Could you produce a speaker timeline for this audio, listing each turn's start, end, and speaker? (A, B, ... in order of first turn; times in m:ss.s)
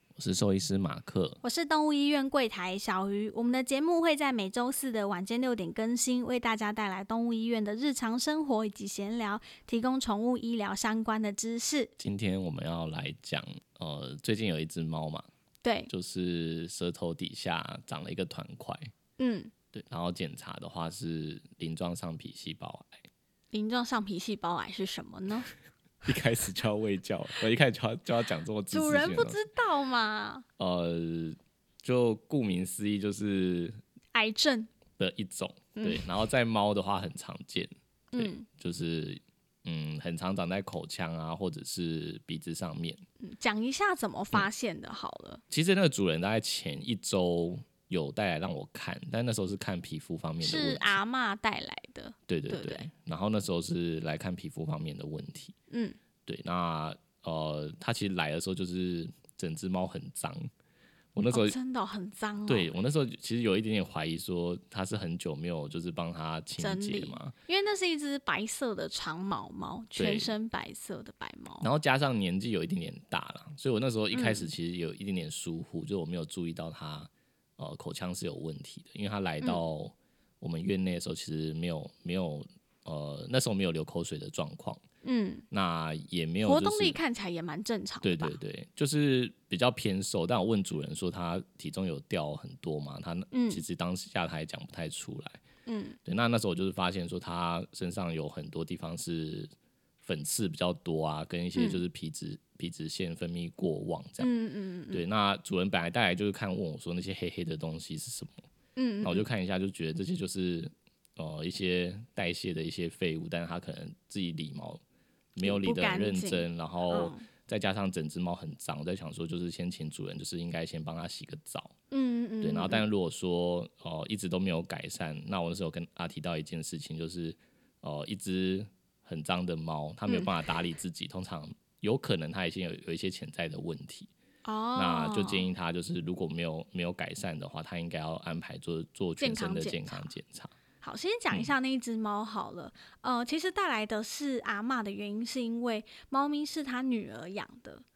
0:00.2-0:01.4 A
0:01.4-0:11.9 B
0:12.0-0:15.3 A
0:15.6-0:15.9 B
0:15.9-0:18.9 A
0:19.2-0:19.5 B
0:19.7-0:23.0 A
0:23.5-0:25.5 B
0:26.0-0:29.4 A
0:28.7-0:30.4 B
0:30.6-0:33.8 A
0:34.1-0:34.7 B
0:35.0-0:43.0 A
0:35.8-0:36.0 B
0:38.1-0:38.5 B
0:43.2-0:45.4 B
0:45.5-0:50.8 A
0:50.4-0:52.9 B
0:52.3-0:55.5 A
0:55.7-0:56.0 B
0:56.2-1:00.5 A
1:01.1-1:01.6 A
1:01.3-1:02.8 B
1:02.5-1:07.3 A
1:06.6-1:11.7 B
1:10.0-1:10.3 A
1:11.6-1:24.8 A
1:14.1-1:14.5 B
1:25.0-1:25.4 B
1:25.5-1:27.0 A
1:26.4-1:28.4 B
1:28.0-1:35.4 A
1:33.3-1:33.6 B
1:35.6-1:36.0 B
1:36.0-1:39.5 A
1:40.0-1:44.3 A
1:41.6-1:41.8 B
1:44.2-1:45.0 B
1:44.9-1:48.4 A
1:48.8-1:49.3 B
1:49.0-1:54.8 A
1:55.3-2:01.7 A
1:55.4-1:57.3 B
2:01.9-2:02.8 B
2:02.4-2:14.1 A
2:10.1-2:10.3 B
2:14.4-2:15.5 B
2:14.8-2:20.5 A
2:19.2-2:20.1 B
2:20.8-2:27.8 B